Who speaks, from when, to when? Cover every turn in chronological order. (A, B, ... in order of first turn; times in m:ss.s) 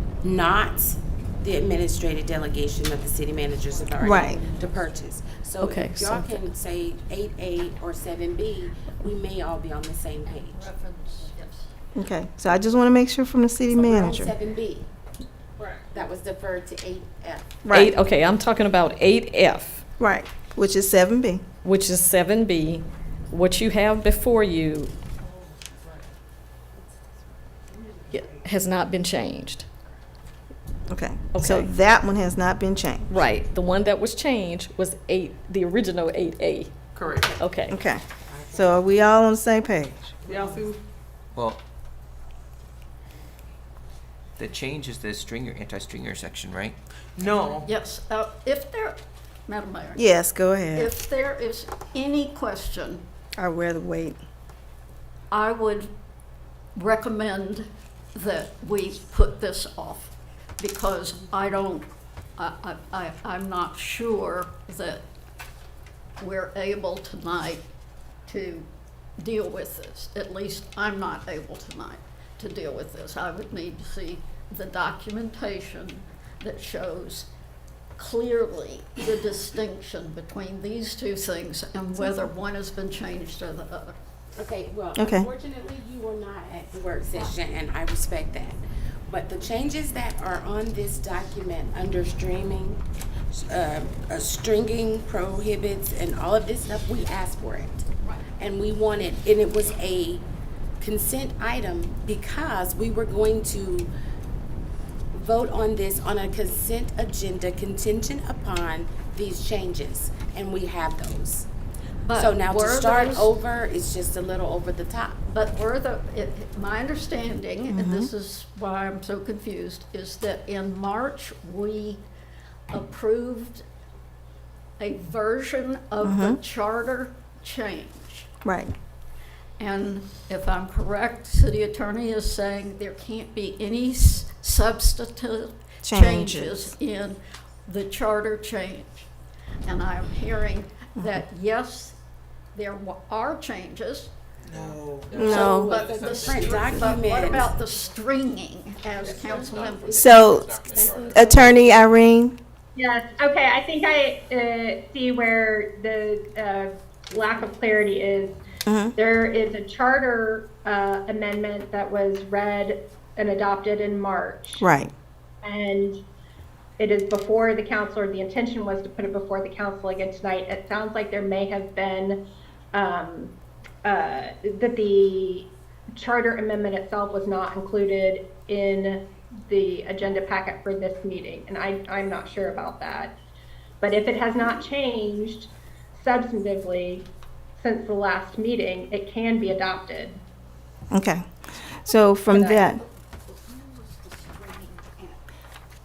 0:00.2-0:10.7 A
0:04.0-0:04.4 B
0:05.6-0:06.4 C
0:10.3-0:11.7 D
0:12.0-0:14.3 B
0:13.7-0:14.9 A
0:15.9-0:17.6 A
0:17.6-0:17.9 B
0:17.7-0:19.8 C
0:20.0-0:21.4 B
0:21.6-0:24.9 C
0:28.1-0:29.7 C
0:30.9-0:33.1 B
0:31.3-0:31.7 C
0:33.1-0:36.8 C
0:36.9-0:37.3 E
0:37.4-0:37.8 C
0:37.7-0:40.1 B
0:38.3-0:38.8 A
0:40.3-0:40.7 A
0:40.3-0:40.8 E
0:41.3-0:41.6 F
0:44.4-0:46.8 F
0:47.2-0:47.7 E
0:47.6-0:50.0 D
0:50.0-0:50.9 B
0:50.8-0:53.0 D
0:53.4-0:54.2 B
0:55.3-0:55.9 D
0:56.8-1:05.0 D
1:06.2-1:07.6 D
1:08.3-1:08.7 D
1:09.2-1:17.3 D
1:18.0-1:24.0 D
1:22.0-1:22.3 B
1:24.4-1:37.9 A
1:25.0-1:25.3 B
1:38.4-1:40.2 A
1:40.8-1:43.9 A
1:45.1-1:51.5 A
1:52.0-1:53.3 D
1:52.1-1:55.2 A
1:55.3-2:02.0 D
1:57.6-1:58.1 B
2:02.7-2:03.6 D
2:04.8-2:08.3 D
2:06.0-2:06.4 B
2:08.4-2:08.7 B
2:09.6-2:19.1 D
2:15.8-2:16.7 B
2:19.7-2:22.0 D
2:21.0-2:21.2 B
2:22.5-2:24.1 D
2:24.4-2:25.5 E
2:24.6-2:27.0 F
2:25.1-2:25.7 B
2:25.2-2:30.1 D
2:25.4-2:27.5 A
2:29.0-2:31.6 F
2:29.2-2:31.7 A
2:30.0-2:30.6 B
2:31.1-2:32.4 B
2:32.8-2:38.4 G
2:38.7-2:39.0 B
2:39.0-2:44.7 G
2:44.6-2:44.9 B
2:45.4-2:46.0 G
2:46.8-2:52.2 G
2:52.7-2:53.3 G
2:53.8-3:03.1 G
3:03.8-3:07.1 G
3:07.6-3:10.2 G
3:10.9-3:11.2 B
3:11.8-3:12.8 B
3:12.3-3:12.6 G
3:12.7-3:15.2 D